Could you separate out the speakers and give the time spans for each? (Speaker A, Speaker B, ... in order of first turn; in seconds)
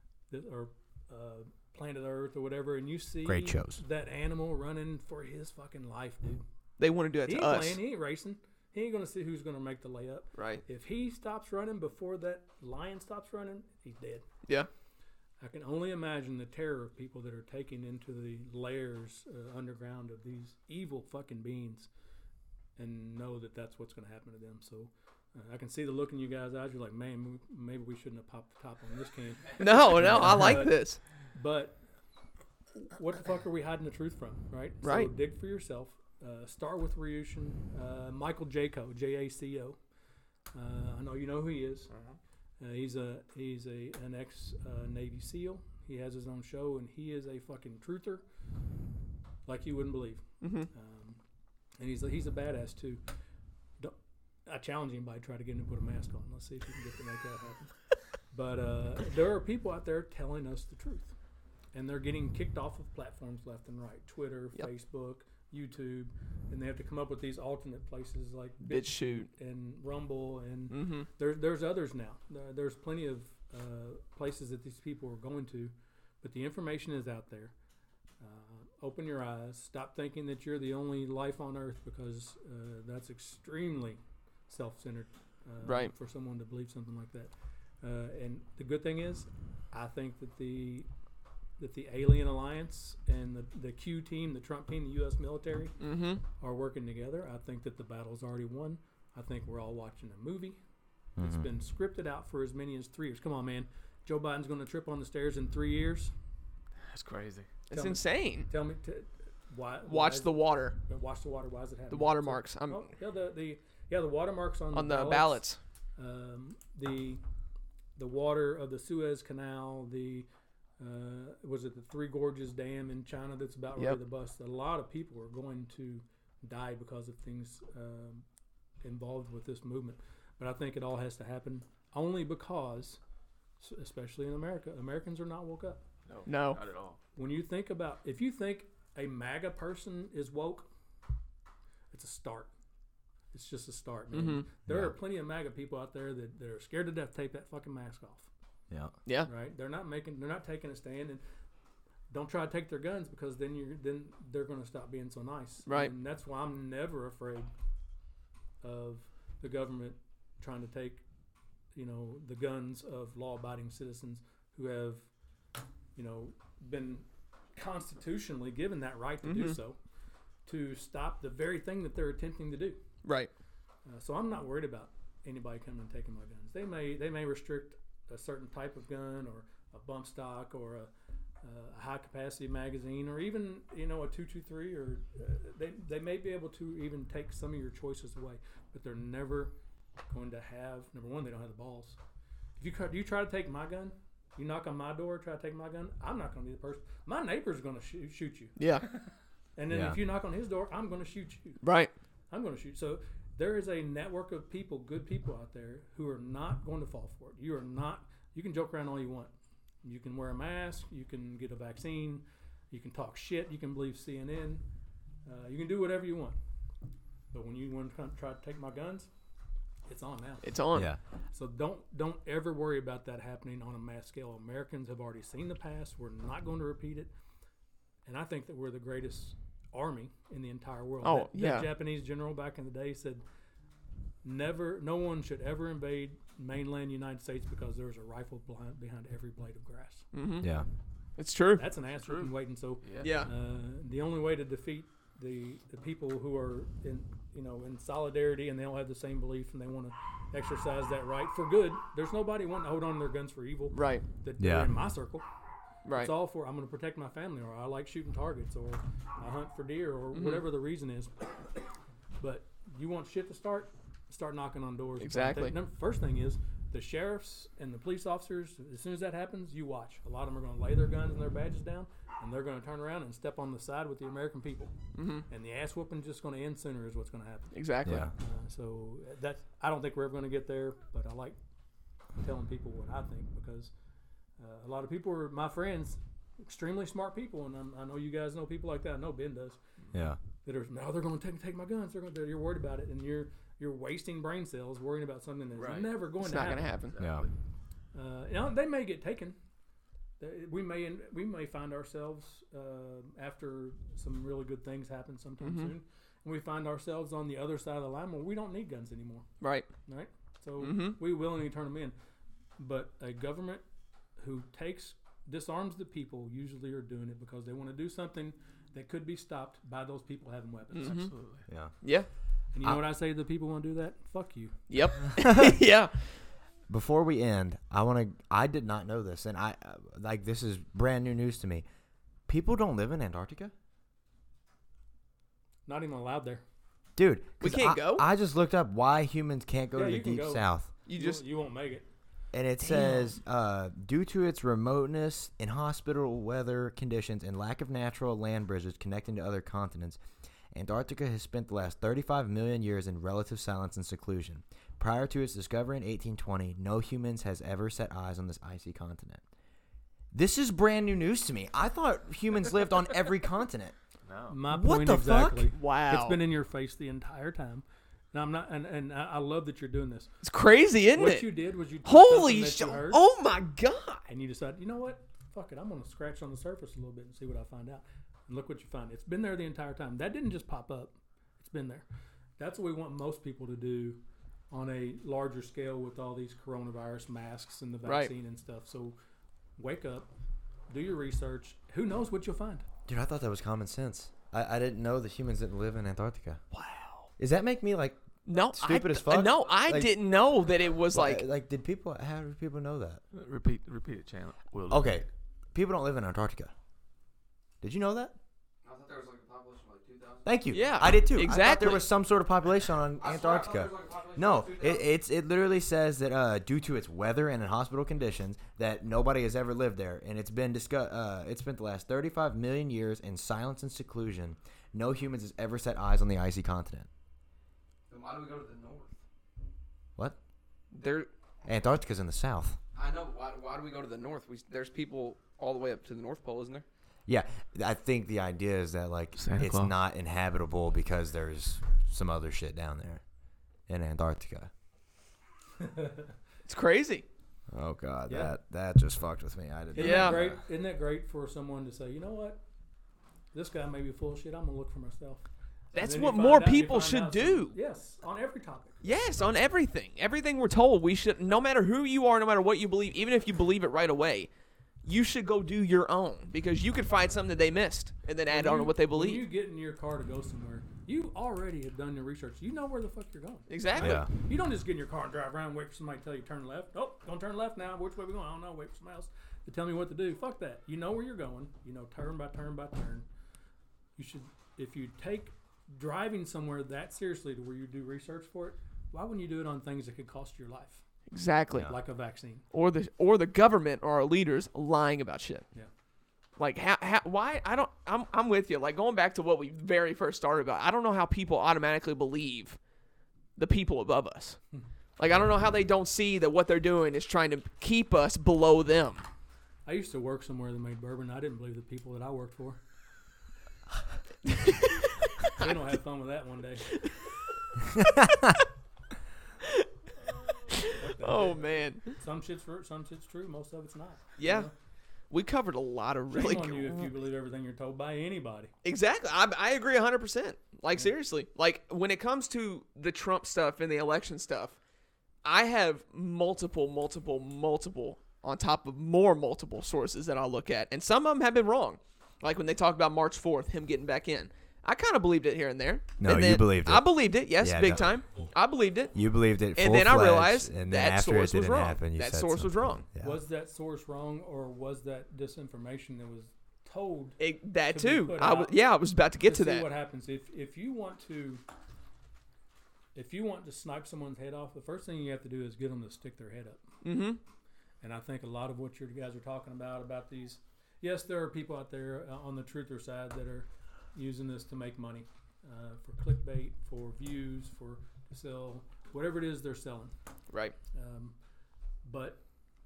Speaker A: 0.3-6.4, 7.3-14.2, 15.4-21.9, 22.8-30.7, 31.3-31.8, 32.8-39.8, 40.5-41.9, 42.6-48.2, 49.5-51.2, 51.8-53.0, 54.5-57.7, 58.3-61.1, 61.7-77.5, 78.2-90.9, 91.6-95.8, 96.4-100.6, 101.2-106.1, 107.7-115.4, 116.0-117.2, 118.0-120.3, 120.8-128.2, 128.8-133.0, 133.6-135.8, 137.2-140.7, 141.9-142.5, 143.3-148.3, 149.2-151.2, 152.1-157.5, 158.6-161.0, 161.7-165.1, 165.9-169.8, 170.4-172.8, 173.8-180.9, 181.4-189.5, 190.1-192.0, 192.6-198.6, 199.6-201.6, 202.3-209.3, 209.8-214.6, 215.2-216.4, 217.3-219.1, 219.8-220.5, 221.3-227.1, 228.1-233.2, 234.2-240.1, 241.6-255.2, 255.9-261.3, 262.2-274.7, 275.3-277.5, 278.2-281.4, 282.2-283.7, 284.4-289.6, 290.4-296.8, 297.9-299.4, 300.2-309.3, 309.8-311.9, 312.6-313.6, 314.2-321.1, 322.5-324.6, 335.6-336.4, 339.7-341.9, 364.3-370.1, 370.9-373.0, 374.1-381.8, 382.4-388.9, 389.6-390.1, 390.7-392.6, 445.6-446.1, 448.1-448.3, 449.7-452.4, 453.3-455.2, 455.8-458.8, 468.3-483.0, 483.9-490.8, 491.6-492.4, 509.6-512.6, 515.4-516.8, 520.7-524.5, 526.1-528.5, 553.0-558.6, 559.2-561.4, 562.9-566.6, 567.8-579.9, 580.7-581.1, 581.8-582.2
Speaker B: 3.2-3.8, 101.2-101.5, 144.7-144.9, 199.7-200.0, 240.4-240.7, 254.4-254.7, 277.8-278.1, 289.9-290.2, 297.0-297.2, 321.5-321.7, 325.2-325.5, 326.7-331.6, 332.3-333.5, 336.9-340.7, 342.3-350.0, 350.5-359.2, 360.1-363.7, 364.5-365.3, 392.9-396.4, 397.2-399.9, 400.9-403.0, 404.7-406.5, 407.6-408.1, 410.2-426.9, 431.4-432.6, 437.1-443.0, 443.7-444.5, 447.5-450.4, 473.8-474.1, 517.7-518.4, 546.0-547.9, 548.9-553.2
Speaker C: 6.8-7.8, 10.3-10.6, 29.6-31.0, 34.8-35.1, 50.4-50.7, 68.6-69.3, 70.7-71.1, 85.6-85.9, 95.8-96.2, 107.7-108.5, 109.8-110.8, 111.9-112.9, 114.7-115.6, 136.2-136.6, 144.1-144.5, 155.7-155.9, 169.2-169.6, 173.0-173.3, 198.6-198.8, 201.6-201.9, 220.4-220.9, 231.0-231.7, 240.1-240.5, 241.2-241.7, 243.0-243.3, 253.7-254.1, 255.8-256.1, 260.1-260.4, 265.0-265.6, 274.9-275.2, 277.5-278.1, 296.2-296.9, 305.4-305.7, 309.4-309.7, 310.6-311.0, 320.7-321.1, 321.8-322.1, 324.7-326.1, 337.4-338.1, 340.9-341.2, 342.6-343.1, 364.9-366.2, 370.2-371.3, 371.8-374.0, 387.8-388.1, 396.5-397.1, 398.2-401.2, 410.5-411.9, 446.4-447.0, 449.8-450.2, 455.7-457.5, 458.8-464.3, 464.8-469.2, 473.5-474.0, 491.1-491.7, 492.5-495.4, 496.4-502.6, 503.4-504.4, 505.0-509.1, 516.7-517.0, 520.5-521.9, 524.2-524.5, 525.1-526.9, 528.6-534.6, 535.2-548.9, 549.5-552.8, 557.2-559.7, 566.8-567.2
Speaker D: 106.9-107.5, 136.1-137.0, 242.0-242.3, 242.8-243.1, 295.6-295.9, 296.9-297.3, 320.8-321.4, 364.1-364.4, 403.1-405.1, 439.2-439.7
Speaker E: 408.6-410.3, 412.9-414.9, 427.9-429.0, 430.7-431.1, 432.7-436.6